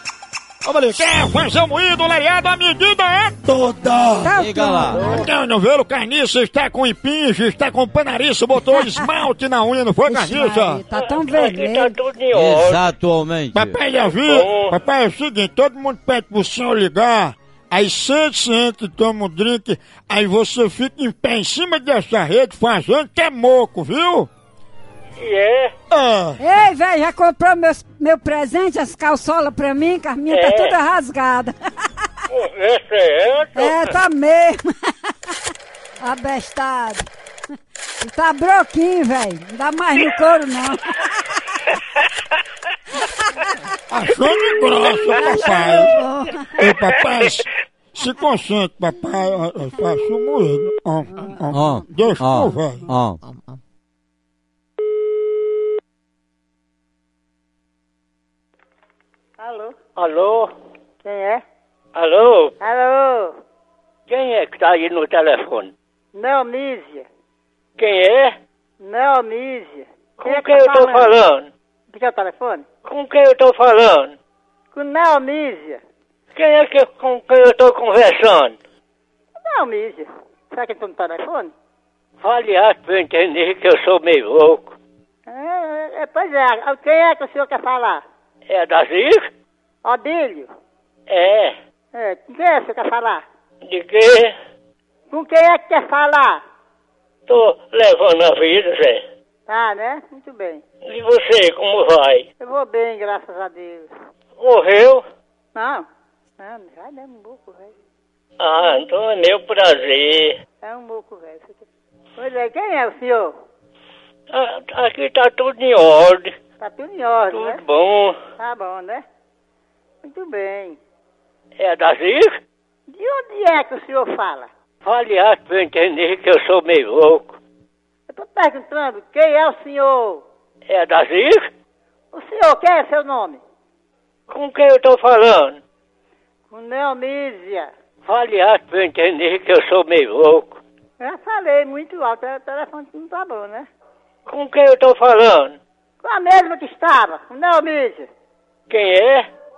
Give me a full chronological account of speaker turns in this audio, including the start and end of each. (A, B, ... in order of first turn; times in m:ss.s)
0:00.6-0:04.4 A
0:04.2-0:05.3 B
0:04.4-0:05.0 C
0:04.9-0:10.8 A
0:08.8-0:09.0 B
0:10.1-0:12.0 B
0:10.9-0:12.9 D
0:12.3-0:13.8 C
0:13.5-0:24.3 A
0:14.1-0:14.7 D
0:25.2-0:25.7 D
0:25.9-0:26.4 A
0:26.4-0:31.6 B
0:30.3-0:30.8 D
0:32.3-0:33.9 D
0:33.6-0:35.1 B
0:36.0-0:37.1 B
0:38.0-0:41.4 B
0:43.9-0:46.0 A
0:45.2-0:46.6 B
0:46.6-0:52.9 A
0:51.5-0:53.2 C
0:59.4-0:59.8 E
1:00.0-1:00.5 D
1:01.0-1:01.4 E
1:02.0-1:02.5 D
1:02.6-1:03.4 E
1:04.1-1:05.7 D
1:06.1-1:07.1 E
1:07.8-1:08.4 D
1:08.8-1:11.1 E
1:10.2-1:11.5 D
1:11.9-1:12.6 E
1:12.8-1:14.2 D
1:14.7-1:15.8 E
1:16.4-1:18.6 D
1:19.4-1:21.5 E
1:22.2-1:24.8 D
1:25.3-1:28.0 E
1:28.5-1:29.2 D
1:29.8-1:30.5 E
1:31.1-1:31.6 D
1:31.9-1:33.2 E
1:33.6-1:34.3 D
1:35.1-1:36.4 E
1:37.3-1:39.0 D
1:39.5-1:40.6 E
1:40.9-1:42.2 D
1:42.4-1:43.9 E
1:44.4-1:45.0 D
1:45.6-1:45.8 E
1:46.4-1:47.7 E
1:48.4-1:50.4 D
1:50.6-1:51.6 E
1:52.2-1:53.3 E
1:54.3-1:56.3 D
1:56.6-1:57.6 E
1:57.3-1:58.2 D
1:58.4-1:59.0 E
2:00.0-2:00.8 E
2:01.6-2:02.4 D
2:02.9-2:04.5 E
2:04.8-2:07.4 D
2:08.1-2:10.2 E
2:10.7-2:11.5 D
2:12.1-2:13.4 E
2:14.3-2:15.6 D
2:16.5-2:17.7 E
2:18.0-2:20.6 D
2:21.0-2:23.7 E
2:24.3-2:25.6 D
2:26.0-2:28.1 E
2:28.7-2:29.3 D